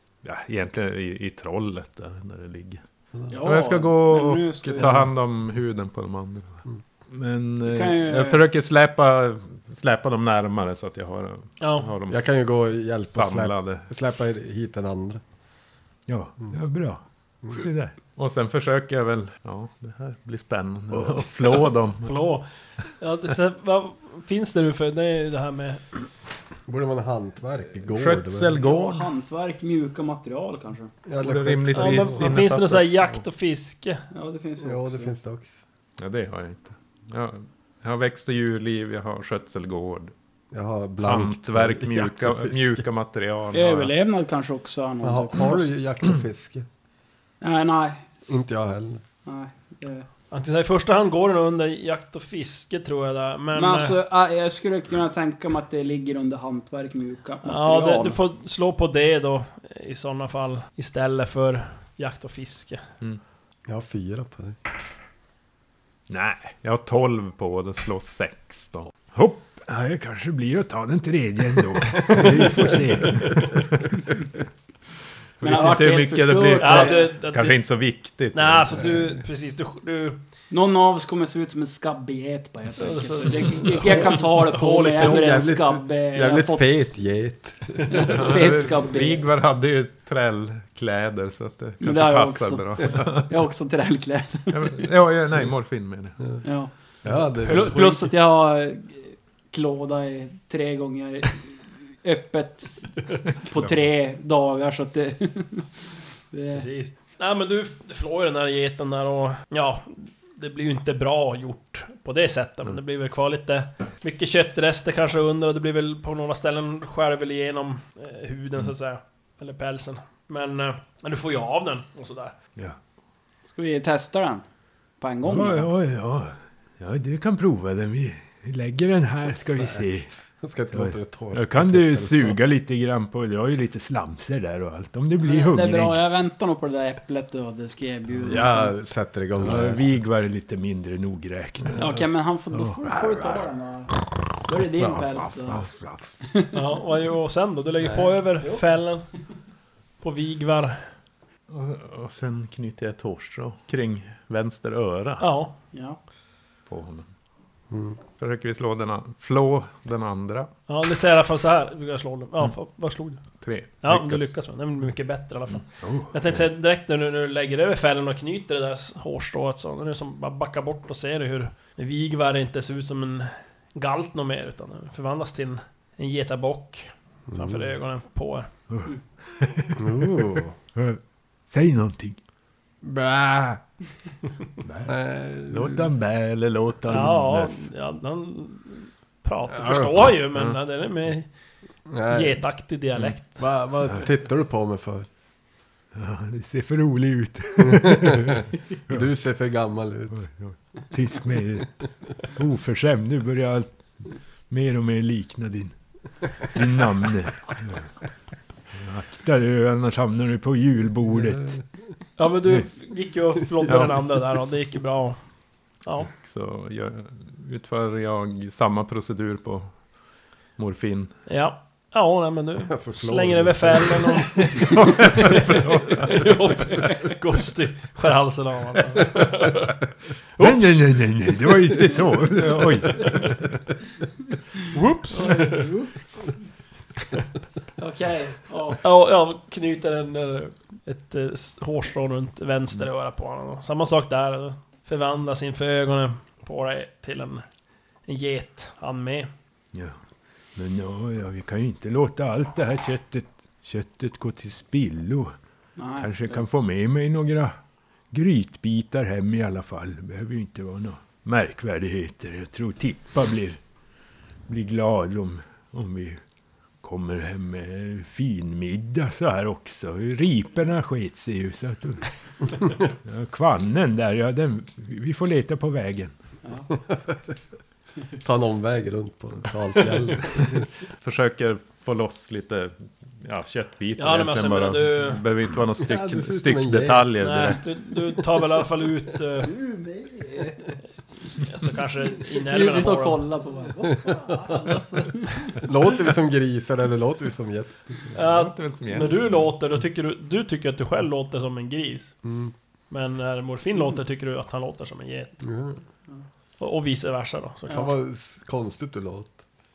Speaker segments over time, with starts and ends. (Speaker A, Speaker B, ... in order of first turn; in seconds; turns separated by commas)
Speaker A: 0.2-2.8, Speaker B: 3.3-5.1, Speaker A: 3.4-13.9, Speaker B: 7.6-8.4, Speaker C: 11.6-11.9, Speaker D: 12.1-15.2, Speaker E: 16.1-17.9, Speaker A: 18.2-22.1, Speaker C: 22.0-22.5, Speaker C: 23.0-25.8, Speaker D: 26.7-28.6, Speaker A: 27.9-29.1, Speaker B: 28.6-30.9, Speaker D: 31.1-32.3, Speaker A: 31.2-33.2, Speaker C: 31.7-34.0, Speaker B: 34.1-35.1, Speaker D: 34.6-35.6, Speaker A: 36.0-40.1, Speaker D: 40.5-42.8, Speaker A: 41.0-43.9, Speaker B: 43.5-45.7, Speaker D: 45.0-46.7, Speaker B: 47.4-48.1, Speaker D: 48.3-49.0, Speaker B: 49.2-50.1, Speaker C: 50.3-54.0, Speaker B: 53.5-58.2, Speaker C: 57.5-62.8, Speaker D: 63.7-64.6, Speaker E: 66.1-66.5, Speaker A: 66.5-69.0, Speaker E: 69.1-73.7, Speaker A: 75.4-79.0, Speaker B: 75.4-77.1, Speaker C: 76.6-77.6, Speaker C: 78.3-80.2, Speaker B: 80.5-86.9, Speaker C: 82.8-85.2, Speaker D: 84.7-88.2, Speaker B: 87.9-89.3, Speaker A: 88.1-93.3, Speaker B: 91.8-94.9, Speaker A: 94.5-96.2, Speaker B: 96.4-105.7, Speaker D: 97.1-97.7, Speaker C: 97.4-98.1, Speaker B: 106.3-106.7, Speaker C: 106.5-122.3, Speaker B: 123.5-124.4, Speaker B: 125.0-125.7, Speaker E: 125.2-130.1, Speaker D: 130.4-132.4, Speaker E: 130.7-136.0, Speaker B: 135.2-138.8, Speaker D: 138.2-139.9, Speaker E: 139.4-143.5, Speaker B: 141.8-143.9, Speaker B: 144.4-145.7, Speaker E: 144.8-146.1, Speaker B: 146.2-146.6, Speaker C: 146.5-149.0, Speaker C: 150.0-150.8, Speaker A: 151.5-155.2, Speaker C: 155.2-155.6, Speaker B: 155.7-156.0, Speaker A: 156.7-157.1, Speaker D: 157.7-158.0, Speaker A: 158.2-160.5, Speaker C: 160.7-163.2, Speaker A: 163.4-164.3, Speaker C: 163.8-178.5, Speaker E: 165.8-166.4, Speaker D: 177.3-177.7, Speaker E: 178.7-182.2, Speaker D: 179.8-180.6, Speaker D: 182.8-183.6, Speaker E: 184.6-184.9, Speaker D: 184.8-185.9, Speaker E: 185.6-187.7, Speaker C: 186.9-191.3, Speaker D: 189.5-190.1, Speaker D: 191.9-192.4, Speaker C: 192.1-193.4, Speaker D: 193.4-195.1, Speaker E: 195.9-199.0, Speaker D: 197.7-200.2, Speaker E: 200.1-203.8, Speaker E: 204.5-205.7, Speaker E: 206.3-207.9, Speaker E: 208.7-211.6, Speaker C: 212.2-215.2, Speaker A: 213.7-214.0, Speaker C: 215.8-216.1, Speaker A: 216.1-219.8, Speaker A: 220.6-221.2, Speaker C: 221.3-229.8, Speaker D: 222.7-224.5, Speaker A: 224.8-226.1, Speaker C: 230.4-230.9, Speaker E: 230.4-233.4, Speaker C: 234.7-235.7, Speaker B: 235.1-236.3, Speaker B: 237.8-238.8, Speaker C: 238.8-247.4, Speaker C: 248.1-249.3, Speaker E: 250.6-255.3, Speaker B: 255.8-256.4, Speaker E: 256.0-257.6, Speaker E: 258.1-263.6, Speaker E: 264.5-266.2, Speaker E: 266.8-276.1, Speaker D: 276.9-277.2, Speaker D: 278.2-280.7, Speaker A: 280.9-287.6, Speaker C: 284.0-285.2, Speaker D: 285.8-287.1, Speaker C: 287.2-289.6, Speaker B: 289.4-290.8, Speaker C: 291.4-293.2, Speaker B: 292.2-295.7, Speaker D: 293.9-294.3, Speaker D: 295.6-298.1, Speaker C: 298.1-302.2, Speaker A: 298.2-299.4, Speaker D: 302.2-302.5, Speaker C: 302.9-305.4, Speaker D: 305.4-305.8, Speaker C: 306.6-307.9, Speaker D: 307.7-309.4